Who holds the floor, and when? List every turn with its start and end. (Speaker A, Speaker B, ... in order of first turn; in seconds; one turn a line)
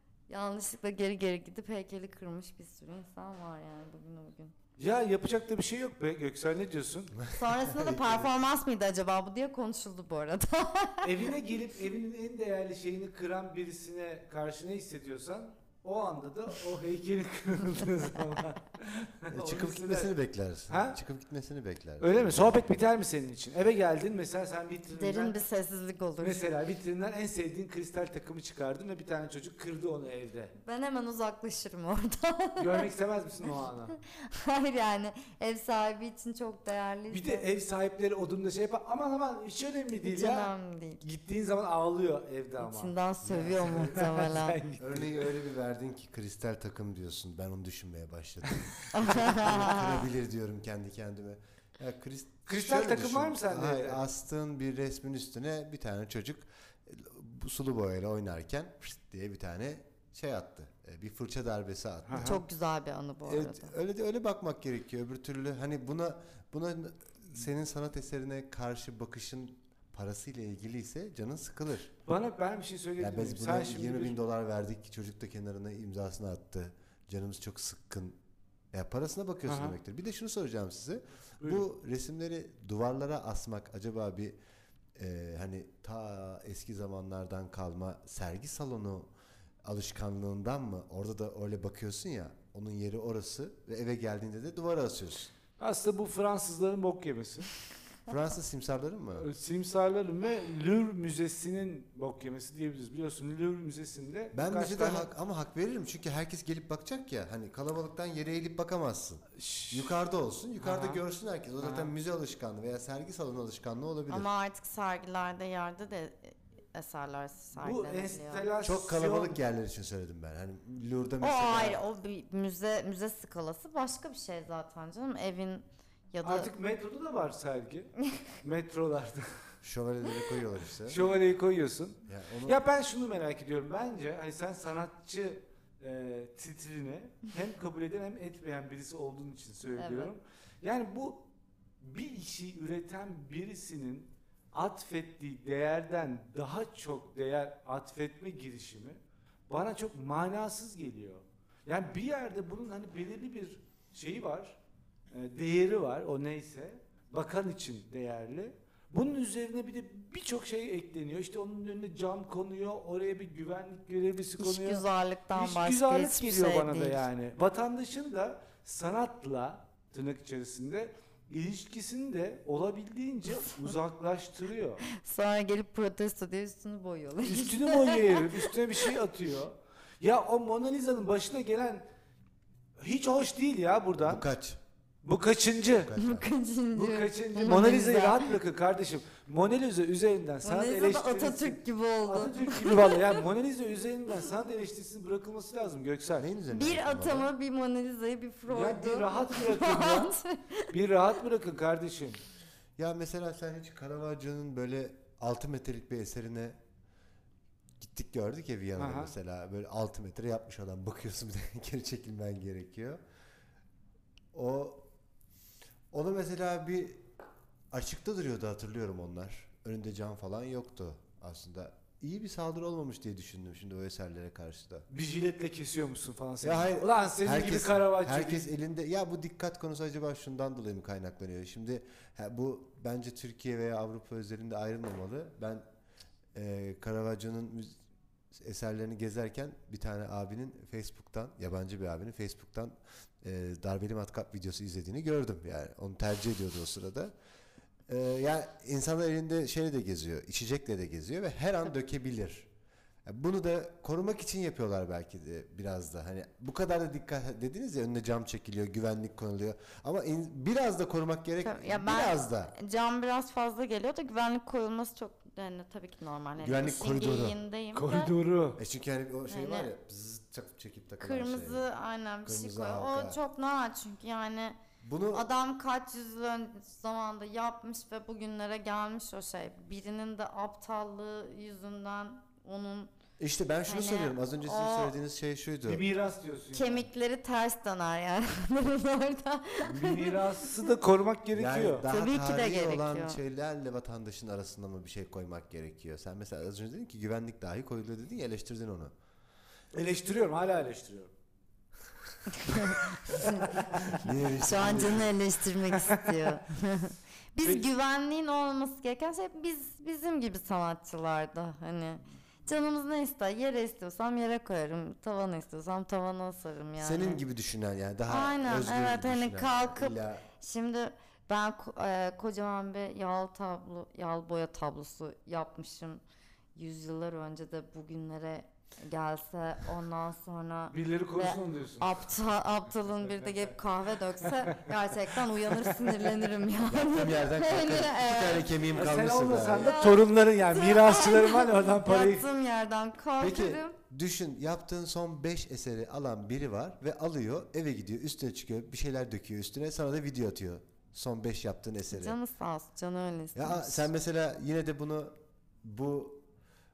Speaker A: 0.3-4.6
Speaker B: 4.8-7.2
Speaker C: 7.2-8.3
Speaker A: 7.3-11.3
Speaker B: 11.0-20.1
Speaker C: 19.3-22.6
Speaker B: 20.7-21.0
Speaker B: 22.0-25.4
Speaker A: 24.9-26.5
Speaker B: 26.2-30.6
Speaker A: 30.6-32.9
Speaker B: 32.6-34.0
Speaker A: 34.1-37.5
Speaker B: 37.1-45.3
Speaker A: 40.0-41.0
Speaker A: 42.6-44.6
Speaker C: 43.2-44.0
Speaker C: 44.8-62.5
Speaker A: 48.9-50.0
Speaker B: 49.3-49.6
Speaker B: 52.5-54.0
Speaker B: 62.1-62.4
Speaker A: 62.2-63.7
Speaker C: 63.3-71.9
Speaker B: 72.1-74.2
Speaker C: 73.0-78.2
Speaker C: 78.7-84.4
Speaker B: 79.5-79.8
Speaker B: 81.4-81.7
Speaker C: 85.0-89.1
Speaker C: 89.7-95.3
Speaker B: 95.6-97.5
Speaker C: 98.1-99.3
Speaker B: 99.2-105.1
Speaker C: 104.3-114.3
Speaker B: 109.4-109.9
Speaker B: 110.6-111.0
Speaker B: 111.6-111.9
Speaker A: 114.1-118.5
Speaker B: 117.6-119.4
Speaker C: 118.6-121.8
Speaker A: 121.2-126.5
Speaker B: 126.2-129.3
Speaker C: 129.6-131.1
Speaker B: 130.9-141.3
Speaker C: 132.1-132.6
Speaker A: 139.8-140.1
Speaker B: 141.8-154.6
Speaker B: 155.1-174.8
Speaker A: 164.4-167.1
Speaker A: 174.8-178.9
Speaker B: 177.2-181.8
Speaker B: 182.8-184.2
Speaker C: 184.0-184.6
Speaker B: 185.0-185.9
Speaker C: 185.8-186.3
Speaker A: 186.0-188.3
Speaker B: 186.7-196.3
Speaker A: 190.4-193.2
Speaker C: 196.2-197.3
Speaker A: 196.5-200.7
Speaker B: 198.5-200.1
Speaker B: 200.7-202.2
Speaker C: 202.8-206.6
Speaker C: 207.8-213.0
Speaker B: 208.8-209.1
Speaker C: 214.3-214.9
Speaker C: 215.9-217.0
Speaker C: 217.7-224.9
Speaker B: 224.9-228.4
Speaker C: 226.4-235.6
Speaker C: 236.3-237.8
Speaker C: 238.3-247.1
Speaker C: 247.9-252.5
Speaker C: 253.1-262.5
Speaker A: 261.4-268.1
Speaker C: 266.4-267.4
Speaker B: 267.7-268.6
Speaker C: 268.6-271.7
Speaker A: 269.3-269.7
Speaker A: 271.0-274.6
Speaker C: 272.2-273.2
Speaker C: 274.8-275.3
Speaker A: 275.1-282.9
Speaker C: 283.2-285.8
Speaker A: 283.7-284.9
Speaker B: 285.7-286.9
Speaker A: 286.5-290.7
Speaker B: 289.6-291.9
Speaker C: 291.3-298.9
Speaker A: 291.9-293.2
Speaker B: 299.7-301.1
Speaker A: 302.3-303.5
Speaker B: 303.5-303.8
Speaker C: 303.9-305.2
Speaker A: 304.4-317.2
Speaker B: 305.8-306.1
Speaker C: 316.8-320.3
Speaker A: 318.1-326.0
Speaker A: 326.6-338.6
Speaker B: 330.7-331.9
Speaker C: 336.7-339.8
Speaker B: 338.7-342.3
Speaker A: 339.6-343.8
Speaker C: 343.2-352.2
Speaker A: 351.9-353.9
Speaker C: 353.4-356.2